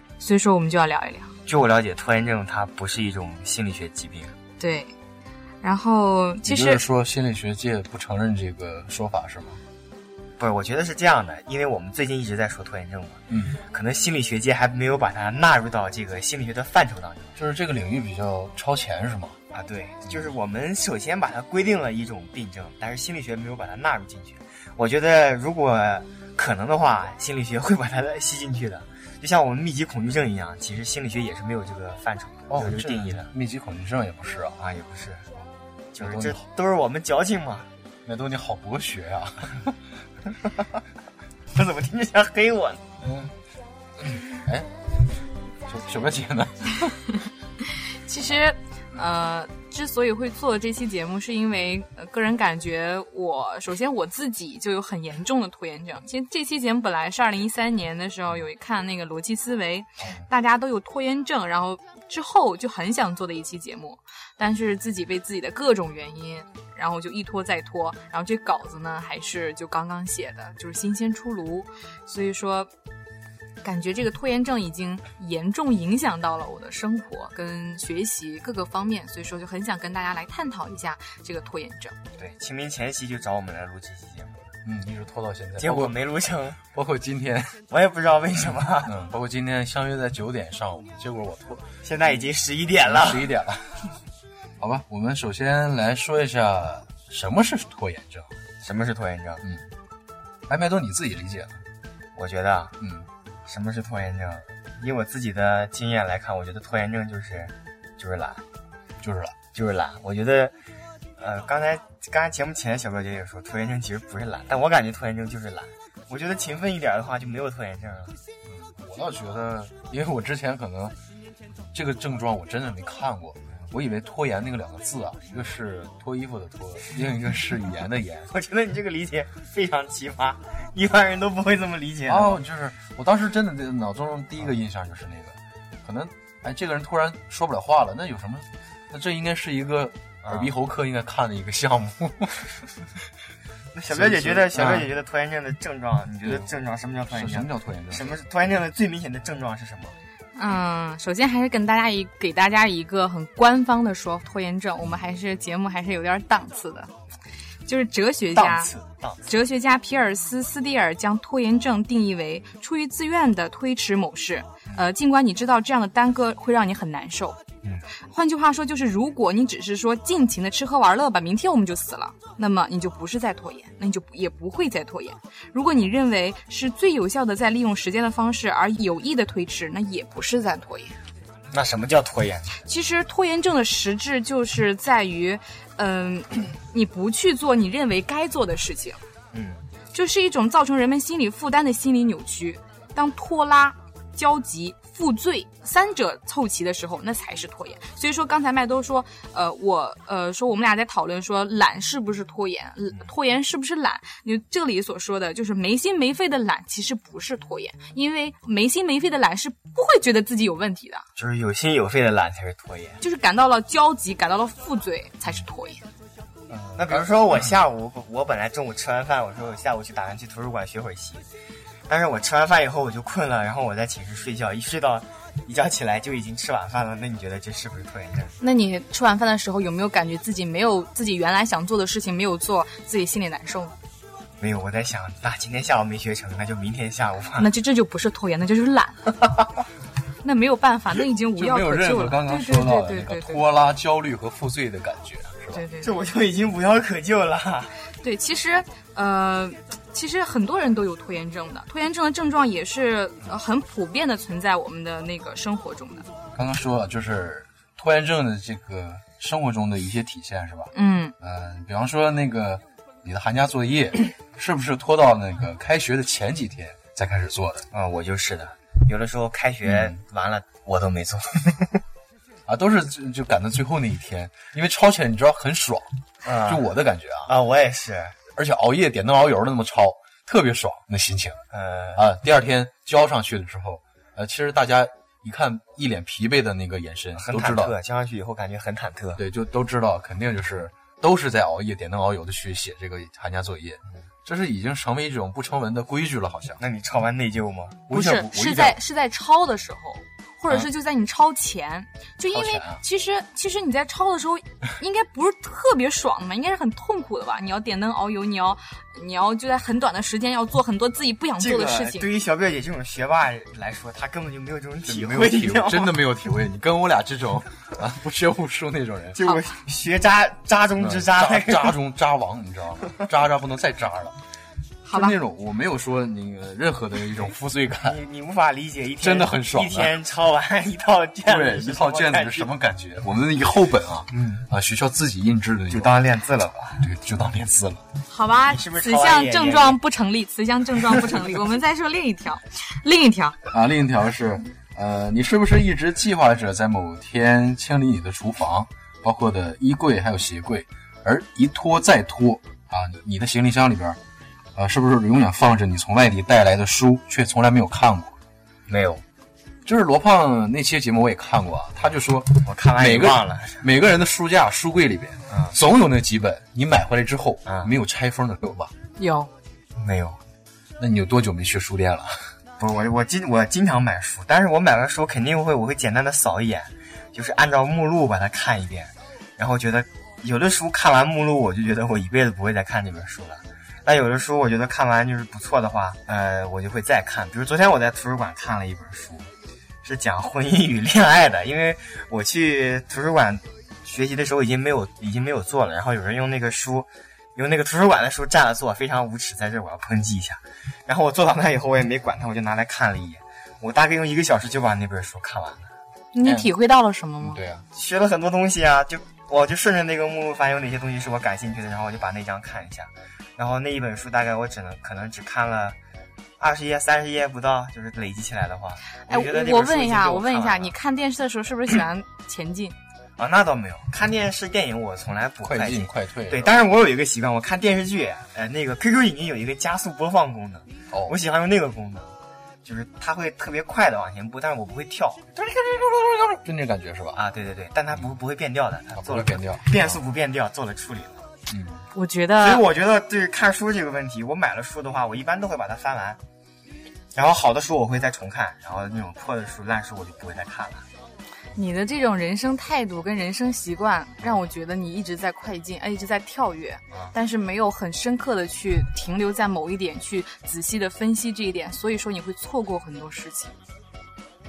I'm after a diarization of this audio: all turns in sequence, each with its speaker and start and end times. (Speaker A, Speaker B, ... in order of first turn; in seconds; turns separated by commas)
Speaker A: 0.2-1.3, Speaker B: 1.4-4.3, Speaker A: 4.6-4.9, Speaker A: 5.6-6.8, Speaker C: 6.4-9.6, Speaker B: 10.4-17.4, Speaker C: 13.3-13.6, Speaker C: 17.4-19.4, Speaker B: 19.5-33.3, Speaker C: 32.5-34.6, Speaker B: 34.6-35.3, Speaker B: 35.9-37.7, Speaker C: 36.0-36.4, Speaker C: 38.0-39.7, Speaker B: 41.5-42.8, Speaker C: 43.0-43.3, Speaker C: 44.0-44.7, Speaker C: 45.7-47.0, Speaker A: 48.0-72.7, Speaker A: 73.6-81.9, Speaker B: 82.2-84.5, Speaker C: 84.6-86.0, Speaker B: 85.6-86.6, Speaker C: 86.6-87.6, Speaker B: 87.7-88.9, Speaker C: 88.8-91.7, Speaker B: 91.8-93.3, Speaker C: 92.8-93.8, Speaker C: 94.6-98.3, Speaker B: 98.6-99.4, Speaker C: 100.5-101.6, Speaker B: 102.1-102.7, Speaker C: 102.8-103.1, Speaker B: 103.5-108.4, Speaker C: 109.0-109.4, Speaker B: 109.5-110.5, Speaker B: 111.2-118.2, Speaker C: 118.5-120.9, Speaker C: 121.7-128.3, Speaker B: 128.3-132.4, Speaker C: 132.1-142.7, Speaker B: 140.2-140.5, Speaker B: 143.7-149.9, Speaker C: 143.9-144.9, Speaker C: 146.2-146.5, Speaker C: 147.1-148.2, Speaker A: 150.3-156.9, Speaker A: 157.7-158.7, Speaker B: 158.3-159.3, Speaker A: 159.3-167.4, Speaker A: 168.1-181.0, Speaker B: 181.5-182.5, Speaker A: 182.6-189.0, Speaker B: 189.3-189.6, Speaker A: 189.9-211.0, Speaker B: 211.2-213.0, Speaker A: 213.0-215.8, Speaker C: 216.5-217.6, Speaker B: 216.8-221.2, Speaker B: 221.9-228.3, Speaker A: 228.4-233.7, Speaker B: 234.4-237.5, Speaker A: 237.4-239.0, Speaker A: 240.2-243.4, Speaker C: 241.3-245.6, Speaker A: 245.5-245.9, Speaker B: 245.8-247.7, Speaker A: 248.0-256.1, Speaker C: 256.3-267.7, Speaker A: 260.7-261.1, Speaker B: 267.7-271.8, Speaker C: 269.6-270.0, Speaker C: 272.5-277.3, Speaker B: 276.2-276.7, Speaker B: 277.3-278.2, Speaker C: 278.3-281.4, Speaker B: 281.5-282.0, Speaker C: 281.9-287.8, Speaker B: 287.1-289.2, Speaker C: 289.2-296.6, Speaker B: 296.6-297.8, Speaker C: 297.9-298.8, Speaker A: 297.9-312.1, Speaker C: 302.3-302.8, Speaker B: 311.4-316.0, Speaker C: 314.9-319.2, Speaker B: 319.1-321.7, Speaker C: 320.8-324.2, Speaker A: 324.8-325.1, Speaker C: 324.9-328.0, Speaker B: 327.8-332.5, Speaker C: 329.0-329.9, Speaker C: 331.2-336.1, Speaker B: 334.1-334.4, Speaker B: 335.7-336.8, Speaker C: 336.8-337.8, Speaker A: 338.1-343.4, Speaker B: 338.5-339.8, Speaker C: 343.5-354.0, Speaker C: 354.5-358.1, Speaker B: 358.7-359.0, Speaker C: 359.6-368.7, Speaker B: 362.4-363.6, Speaker B: 365.3-365.6, Speaker B: 367.4-367.7, Speaker A: 369.0-369.3, Speaker B: 369.8-370.2, Speaker C: 370.8-372.3, Speaker B: 372.6-389.3, Speaker B: 389.8-405.7, Speaker A: 406.1-407.4, Speaker C: 406.2-406.5, Speaker C: 407.2-407.6, Speaker B: 407.7-415.8, Speaker B: 416.4-420.7, Speaker A: 419.1-422.8, Speaker B: 423.2-432.1, Speaker C: 425.4-426.7, Speaker C: 430.9-431.1, Speaker B: 432.6-435.3, Speaker C: 435.4-437.2, Speaker B: 437.1-441.2, Speaker C: 438.9-440.0, Speaker C: 441.5-441.8, Speaker A: 441.9-442.6, Speaker B: 442.4-446.2, Speaker B: 447.1-450.9, Speaker A: 451.6-463.5